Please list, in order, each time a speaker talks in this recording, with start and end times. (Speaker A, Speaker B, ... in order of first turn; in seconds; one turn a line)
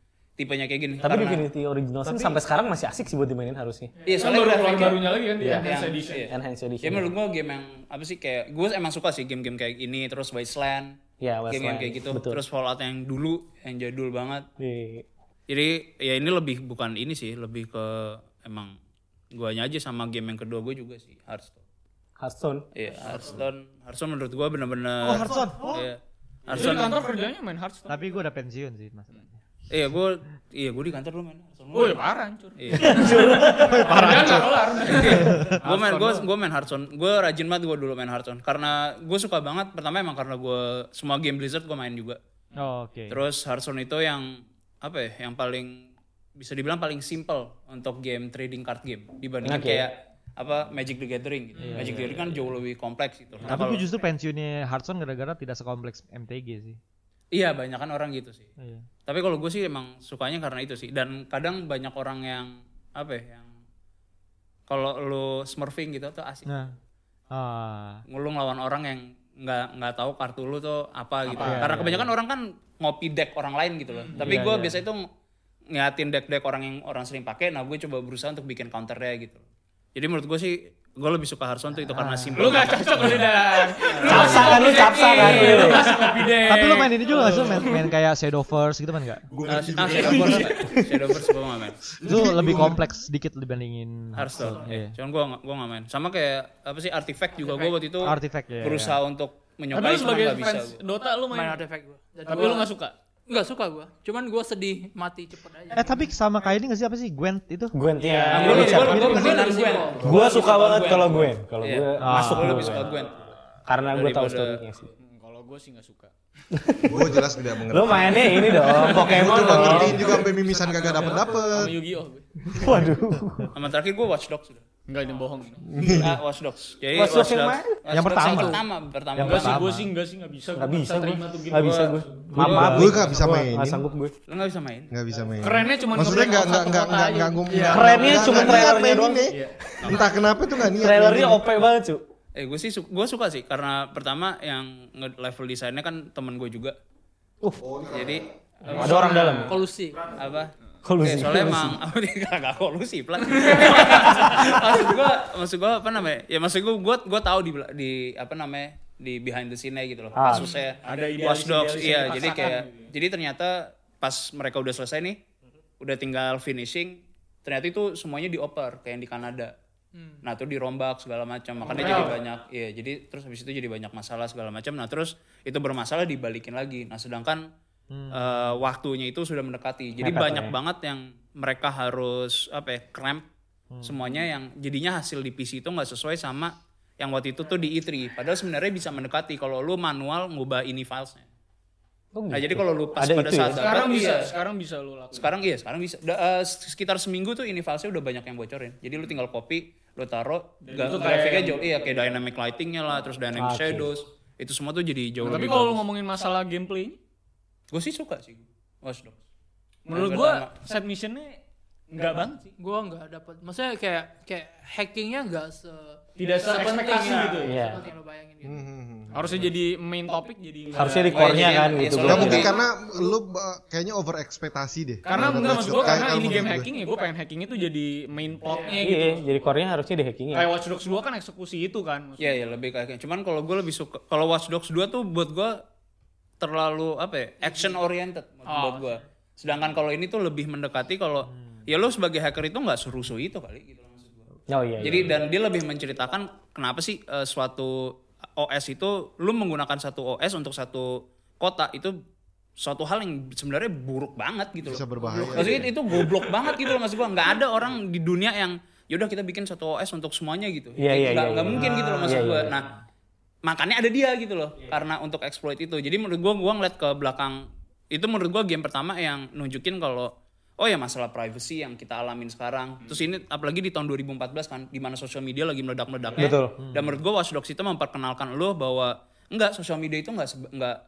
Speaker A: 0.4-1.5
Speaker B: 1.0-3.9
Speaker C: 4.0-4.3
Speaker A: 4.1-5.0
Speaker D: 4.2-6.3
Speaker B: 5.4-5.7
Speaker A: 5.6-10.9
Speaker B: 6.3-7.1
Speaker B: 11.2-12.4
Speaker A: 11.5-14.4
Speaker B: 14.6-15.1
Speaker A: 15.5-18.7
Speaker A: 19.3-21.6
Speaker B: 22.2-22.7
Speaker A: 22.7-27.0
Speaker E: 23.1-23.4
Speaker F: 25.0-25.9
Speaker D: 26.5-28.0
Speaker F: 27.9-29.3
Speaker A: 29.7-32.0
Speaker D: 31.7-36.3
Speaker A: 32.6-33.0
Speaker B: 32.7-34.2
Speaker F: 33.0-35.6
Speaker A: 34.7-42.2
Speaker F: 42.6-43.2
Speaker A: 43.1-44.3
Speaker A: 44.8-45.8
Speaker A: 46.4-53.9
Speaker B: 49.4-49.9
Speaker C: 51.6-52.0
Speaker F: 51.6-52.3
Speaker F: 53.5-56.8
Speaker A: 57.3-58.5
Speaker A: 59.1-63.5
Speaker A: 64.7-66.7
Speaker F: 66.5-66.7
Speaker F: 67.3-68.0
Speaker A: 68.1-75.0
Speaker F: 71.3-72.0
Speaker D: 71.4-71.7
Speaker C: 73.9-74.2
Speaker B: 74.2-74.8
Speaker F: 74.3-74.6
Speaker A: 75.7-79.4
Speaker A: 80.0-83.3
Speaker F: 81.9-82.7
Speaker D: 82.3-87.9
Speaker A: 83.9-86.0
Speaker B: 84.1-85.9
Speaker F: 85.2-89.2
Speaker E: 89.3-90.5
Speaker A: 89.5-91.8
Speaker D: 89.8-90.8
Speaker E: 92.0-92.8
Speaker F: 92.0-94.9
Speaker A: 94.2-100.8
Speaker C: 94.4-94.7
Speaker C: 97.4-97.7
Speaker F: 98.0-99.0
Speaker D: 99.7-101.6
Speaker C: 101.3-102.7
Speaker D: 102.3-102.9
Speaker C: 103.3-106.0
Speaker F: 105.7-107.8
Speaker B: 107.7-109.2
Speaker D: 108.0-109.0
Speaker F: 108.3-109.3
Speaker A: 108.3-113.1
Speaker C: 108.5-110.1
Speaker B: 110.0-113.1
Speaker F: 112.0-112.7
Speaker B: 113.7-114.9
Speaker A: 113.9-114.6
Speaker D: 115.0-116.1
Speaker B: 116.5-117.2
Speaker E: 116.8-121.8
Speaker B: 117.7-120.2
Speaker A: 118.7-120.2
Speaker D: 120.6-122.2
Speaker B: 122.5-123.5
Speaker A: 123.5-124.6
Speaker D: 124.9-125.7
Speaker E: 125.7-126.2
Speaker A: 125.9-129.7
Speaker B: 126.9-127.8
Speaker F: 127.9-128.7
Speaker F: 129.2-129.9
Speaker D: 129.2-133.0
Speaker B: 130.6-134.1
Speaker A: 131.6-133.0
Speaker F: 132.4-133.4
Speaker E: 132.5-133.8
Speaker A: 134.3-134.9
Speaker E: 134.9-141.4
Speaker D: 135.4-138.6
Speaker C: 137.5-137.8
Speaker B: 137.7-142.0
Speaker A: 142.3-146.8
Speaker E: 147.6-148.2
Speaker A: 147.9-149.3
Speaker B: 148.7-149.6
Speaker D: 148.7-149.5
Speaker C: 149.5-150.0
Speaker A: 150.1-165.2
Speaker B: 150.8-151.8
Speaker D: 153.3-154.3
Speaker B: 160.2-160.4
Speaker C: 160.3-160.7
Speaker D: 160.8-162.9
Speaker A: 165.8-169.5
Speaker C: 169.9-170.2
Speaker A: 170.2-177.4
Speaker D: 171.6-172.2
Speaker C: 171.7-172.1
Speaker F: 177.9-178.4
Speaker A: 178.1-183.2
Speaker B: 180.0-180.6
Speaker A: 183.8-191.3
Speaker B: 192.1-193.7
Speaker A: 192.3-194.3
Speaker D: 193.5-195.3
Speaker A: 195.1-205.8
Speaker D: 200.6-201.8
Speaker B: 203.4-203.9
Speaker D: 205.2-207.0
Speaker A: 207.7-209.2
Speaker D: 209.9-211.4
Speaker A: 209.9-210.5
Speaker D: 211.9-212.5
Speaker C: 212.6-218.6
Speaker D: 216.2-217.6
Speaker B: 217.4-217.8
Speaker E: 218.4-219.5
Speaker D: 219.1-222.3
Speaker B: 220.7-222.5
Speaker A: 221.1-222.6
Speaker E: 222.0-226.7
Speaker D: 225.1-229.2
Speaker C: 228.5-228.8
Speaker B: 228.8-230.5
Speaker D: 230.3-232.6
Speaker A: 232.2-235.5
Speaker A: 236.4-244.2
Speaker C: 237.4-237.8
Speaker C: 238.5-239.0
Speaker B: 244.5-245.2
Speaker A: 244.8-251.9
Speaker A: 252.6-262.7
Speaker E: 254.6-255.7
Speaker B: 260.8-262.6
Speaker A: 263.4-280.8
Speaker B: 276.2-276.6